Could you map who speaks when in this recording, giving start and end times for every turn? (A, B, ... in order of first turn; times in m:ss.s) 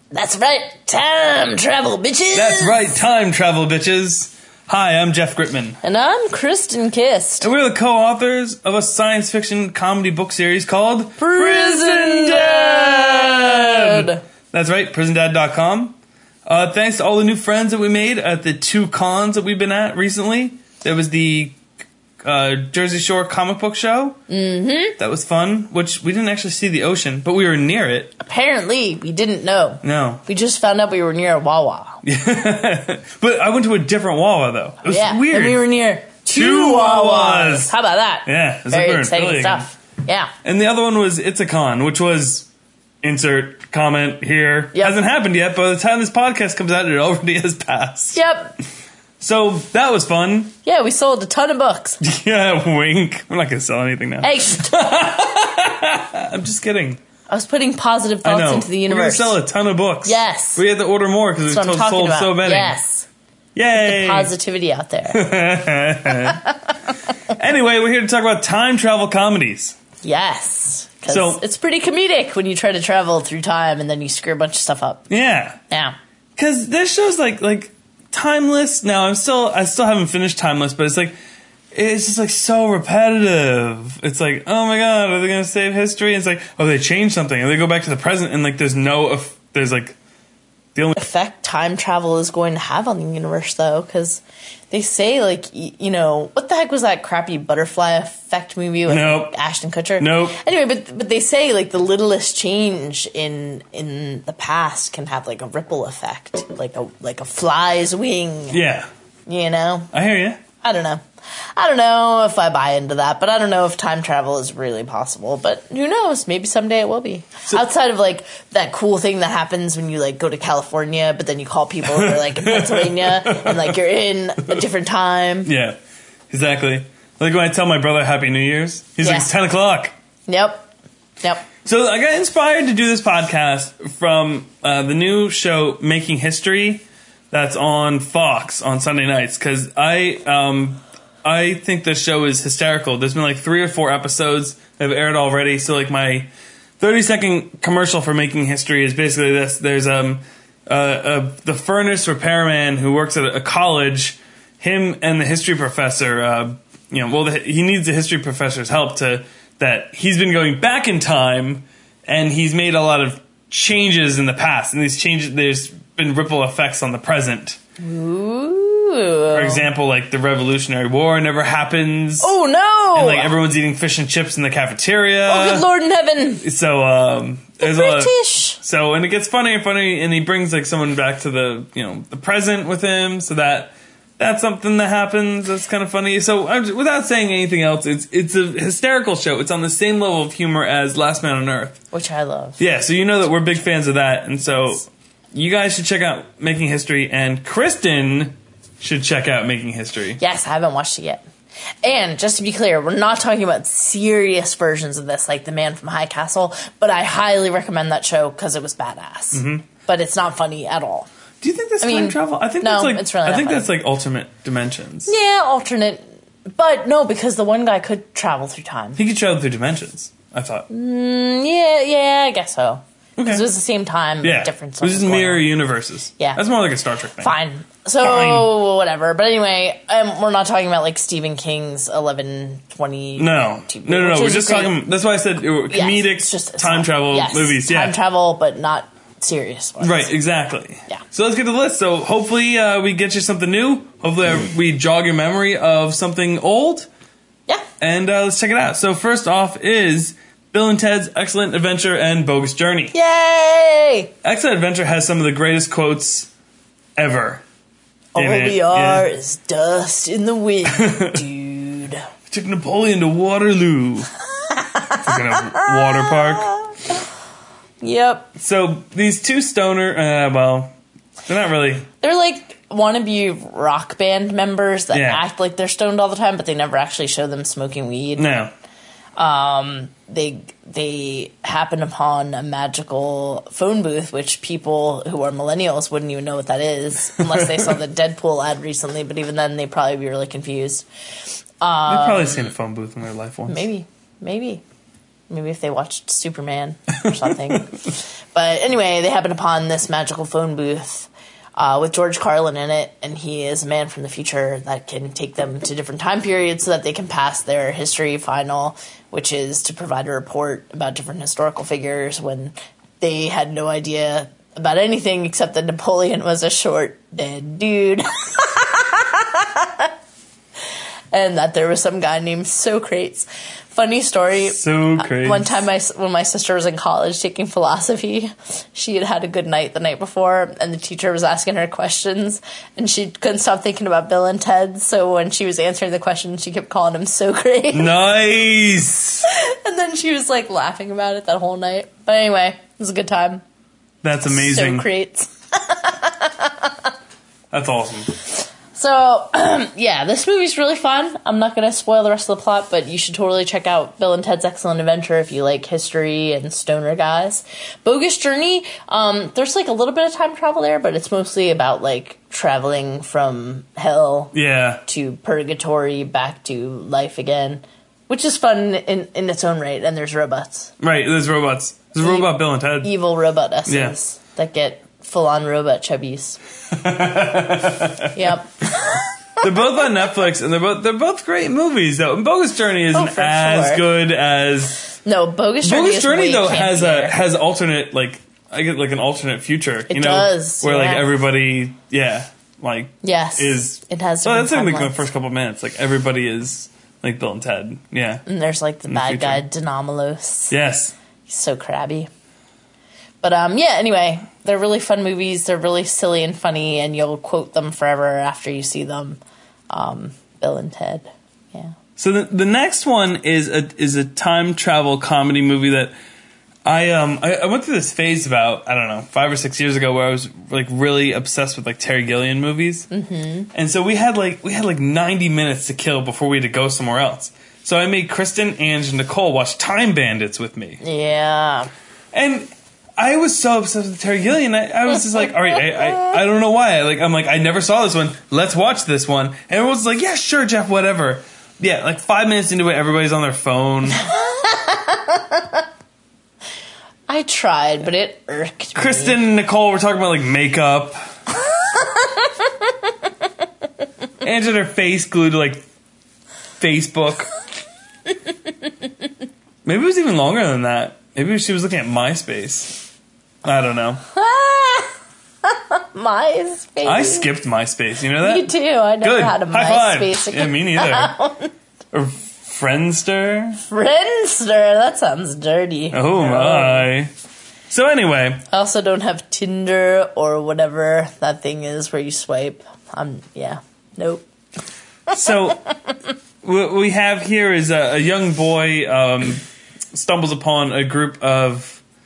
0:00.1-0:02.9 A
0:02.3-0:05.8 B
0:05.8-0:07.5 A
0:07.4-0:21.6 B
0:11.2-0:14.2 A
0:22.2-0:24.2 B
0:24.3-0:25.0 A
0:25.0-0:28.2 B
0:28.2-0:32.0 A
0:29.8-0:30.2 B
0:32.0-0:35.6 B
0:34.8-0:40.3 A
0:36.3-0:37.7 B
0:38.3-0:39.7 B
0:40.4-0:42.5 B
0:43.0-0:48.2 B
0:44.7-0:45.0 A
0:48.2-0:48.6 A
0:49.2-0:50.5 B
0:50.6-0:52.0 A
0:52.0-0:57.0 B
0:54.2-0:54.8 A
0:57.3-0:59.4 A
0:58.2-1:02.8 B
1:00.0-1:00.6 A
1:01.5-1:03.1 A
1:03.6-1:04.3 B
1:03.8-1:05.3 A
1:05.1-1:06.4 B
1:06.1-1:06.8 A
1:07.3-1:09.8 B
1:10.0-1:15.1 A
1:11.1-1:11.4 B
1:15.1-1:15.6 B
1:15.7-1:16.0 A
1:16.4-1:21.2 B
1:21.7-1:30.0 B
1:31.0-1:48.6 A
1:38.9-1:39.3 B
1:40.0-1:40.4 B
1:48.5-1:48.9 B
1:49.3-1:49.9 A
1:49.9-1:50.4 B
1:50.6-2:05.5 A
2:01.9-2:03.8 B
2:05.4-2:05.8 B
2:06.3-2:09.9 B
2:09.0-2:09.3 A
2:10.3-2:10.7 A
2:11.2-2:11.5 A
2:11.6-2:47.6 B
2:47.8-2:49.6 A
2:49.3-2:52.3 B
2:52.2-2:53.4 A
2:52.9-2:55.7 B
2:55.3-2:56.4 A
2:56.4-3:11.8 B
2:57.6-2:58.6 A
3:11.9-3:12.6 A
3:12.6-3:20.2 B
3:20.2-3:21.3 A
3:21.8-3:31.1 A
3:29.3-3:29.7 B
3:31.4-3:35.1 B
3:31.8-3:33.7 A
3:35.1-3:39.0 A
3:39.0-3:40.7 B
3:40.7-3:45.5 A
3:43.2-3:43.5 B
3:44.2-3:47.3 B
3:47.2-3:54.8 A
3:48.0-3:48.5 B
3:53.2-3:58.0 B
3:55.7-4:00.1 A
3:59.8-4:06.9 B
4:07.8-4:12.9 B
4:12.9-4:14.1 A
4:14.2-4:16.3 B
4:17.0-4:17.4 B
4:18.2-4:22.0 A
4:18.2-4:19.1 B
4:20.7-4:21.2 B
4:22.3-4:24.1 B
4:24.5-4:27.1 A
4:25.0-4:26.5 B
4:27.8-4:28.3 A
4:28.4-4:30.7 B
4:31.3-4:31.9 B
4:32.0-4:38.3 A
4:34.9-4:35.2 B
4:38.2-4:38.5 B
4:39.2-4:52.5 A
4:47.4-4:47.6 B
4:51.9-4:53.7 B
4:53.5-4:54.6 A
4:55.3-5:19.9 A
5:21.1-5:38.0 A
5:24.5-5:25.6 B
5:37.7-5:39.3 B
5:39.2-5:43.4 A
5:44.0-5:44.9 B
5:44.3-5:46.9 A
5:47.5-5:48.2 B
5:48.3-6:04.3 A
6:04.3-6:04.8 B
6:04.9-6:10.7 A
6:10.8-6:12.9 B
6:12.0-6:12.3 A
6:12.8-6:16.4 A
6:13.7-6:14.0 B
6:16.7-6:18.4 B
6:18.2-6:19.9 A
6:19.4-6:24.8 B
6:22.9-6:23.8 A
6:25.0-6:27.2 A
6:25.6-6:38.2 B
6:29.9-6:31.1 A
6:33.0-6:35.0 A
6:38.3-6:40.5 A
6:38.9-6:39.4 B
6:40.5-6:40.9 B
6:41.3-6:42.1 A
6:43.2-6:49.2 A
6:49.7-6:51.8 A
6:52.0-6:56.0 B
6:56.7-7:02.9 B
7:02.9-7:03.5 A
7:03.5-7:10.8 B
7:10.8-7:11.7 A
7:12.1-7:24.0 B
7:15.2-7:16.1 A
7:24.0-7:25.6 A
7:27.1-7:29.2 A
7:28.8-7:31.0 B
7:31.4-7:32.9 A
7:34.2-7:35.6 B
7:36.6-7:37.3 B
7:39.6-7:42.8 B
7:43.4-7:44.0 B
7:44.1-7:47.3 A
7:46.8-7:51.1 B
7:48.2-7:51.5 A
7:51.9-7:53.6 B
7:53.7-7:56.9 A
7:55.9-7:57.1 B
7:57.7-7:58.4 B
7:58.5-8:04.3 A
8:05.1-8:05.6 B
8:06.4-8:11.8 B